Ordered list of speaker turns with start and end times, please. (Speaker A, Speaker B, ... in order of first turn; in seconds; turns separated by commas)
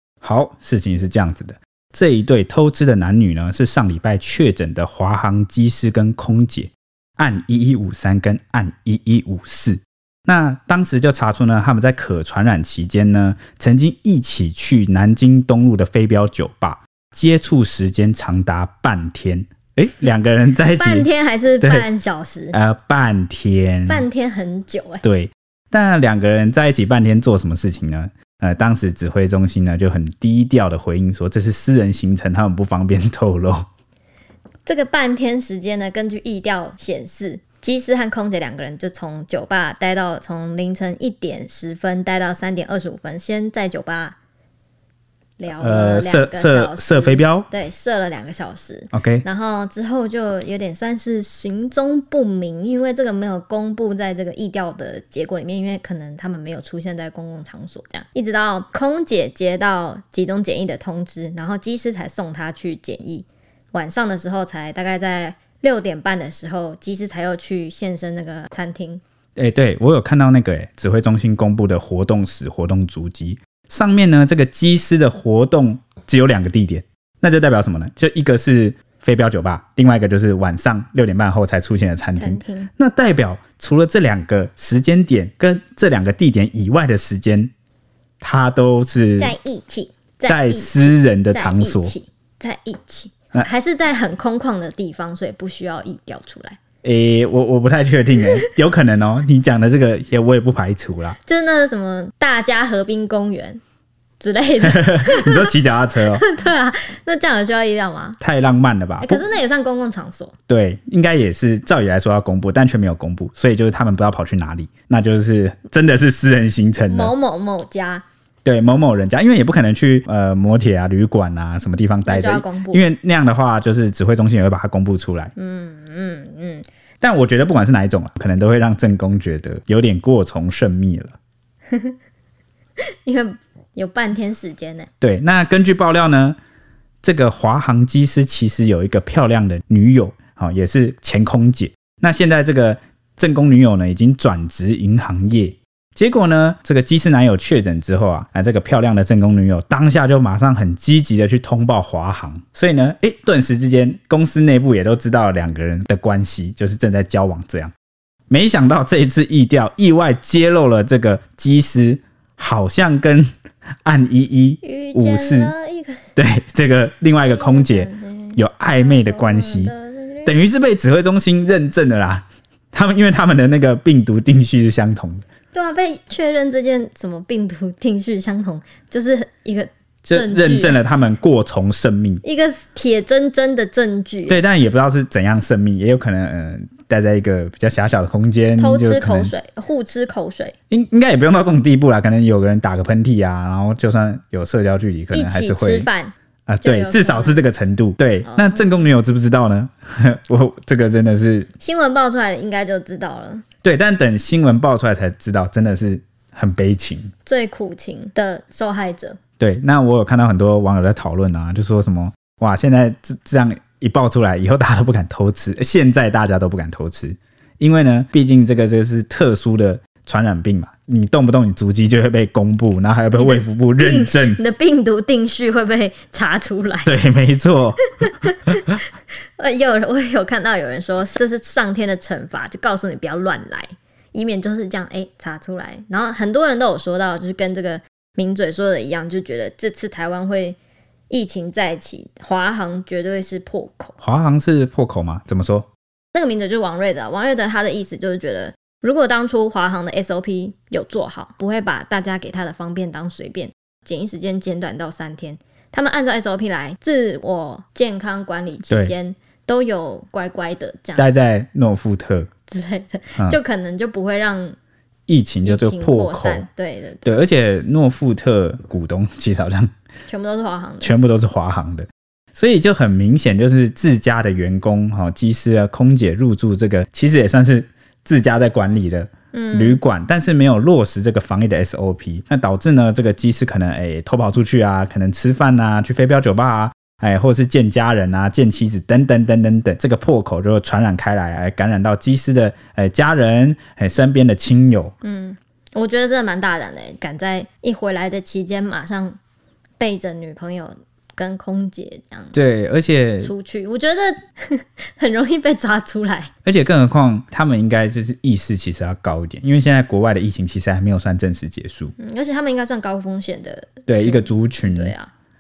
Speaker A: 0.2-21.1, Speaker B: 20.7-22.6, Speaker A: 21.6-21.9, Speaker A: 22.5-24.1, Speaker B: 23.9-25.0, Speaker A: 25.0-33.7, Speaker B: 34.7-44.2, Speaker B: 45.4-69.0, Speaker A: 45.6-47.5, Speaker A: 48.9-49.2, Speaker A: 69.4-87.5, Speaker B: 82.2-82.7, Speaker A: 88.2-89.3, Speaker B: 89.2-96.6, Speaker A: 90.2-91.9, Speaker A: 96.8-101.2, Speaker B: 98.2-98.5, Speaker B: 101.2-103.6, Speaker B: 104.2-108.2, Speaker A: 104.6-106.2, Speaker A: 108.2-109.3, Speaker B: 109.0-110.3, Speaker A: 110.5-117.1, Speaker B: 116.9-118.0, Speaker A: 118.4-125.3, Speaker B: 122.1-122.9, Speaker B: 125.3-126.7, Speaker A: 127.0-131.2, Speaker B: 131.7-132.0, Speaker B: 133.0-134.9, Speaker A: 135.0-136.4, Speaker A: 137.0-157.7, Speaker A: 158.3-163.3, Speaker A: 163.8-165.5, Speaker B: 164.6-166.1, Speaker A: 166.2-169.7, Speaker B: 167.2-170.4, Speaker A: 170.2-175.2, Speaker B: 175.5-180.8, Speaker A: 180.0-182.2, Speaker B: 182.2-184.4, Speaker A: 184.3-189.3, Speaker B: 188.6-190.5, Speaker A: 190.7-195.9, Speaker B: 195.1-197.4, Speaker A: 196.5-201.5, Speaker B: 198.2-198.8, Speaker B: 201.6-203.4, Speaker A: 203.6-207.1, Speaker B: 207.2-209.2, Speaker A: 209.4-224.4, Speaker B: 223.2-226.9, Speaker A: 226.8-227.9, Speaker B: 228.0-228.8, Speaker B: 229.4-240.6, Speaker B: 241.1-243.9, Speaker A: 244.0-245.7, Speaker B: 246.1-261.1, Speaker A: 261.0-262.3, Speaker B: 262.5-264.6, Speaker A: 265.1-266.4, Speaker B: 265.4-267.0, Speaker A: 267.0-269.7, Speaker B: 270.1-270.9, Speaker A: 270.8-294.9, Speaker B: 279.3-279.8, Speaker B: 295.0-299.2, Speaker B: 299.8-302.4, Speaker A: 302.3-303.3, Speaker B: 303.2-306.3, Speaker A: 306.4-311.9, Speaker B: 312.0-315.1, Speaker A: 313.9-314.9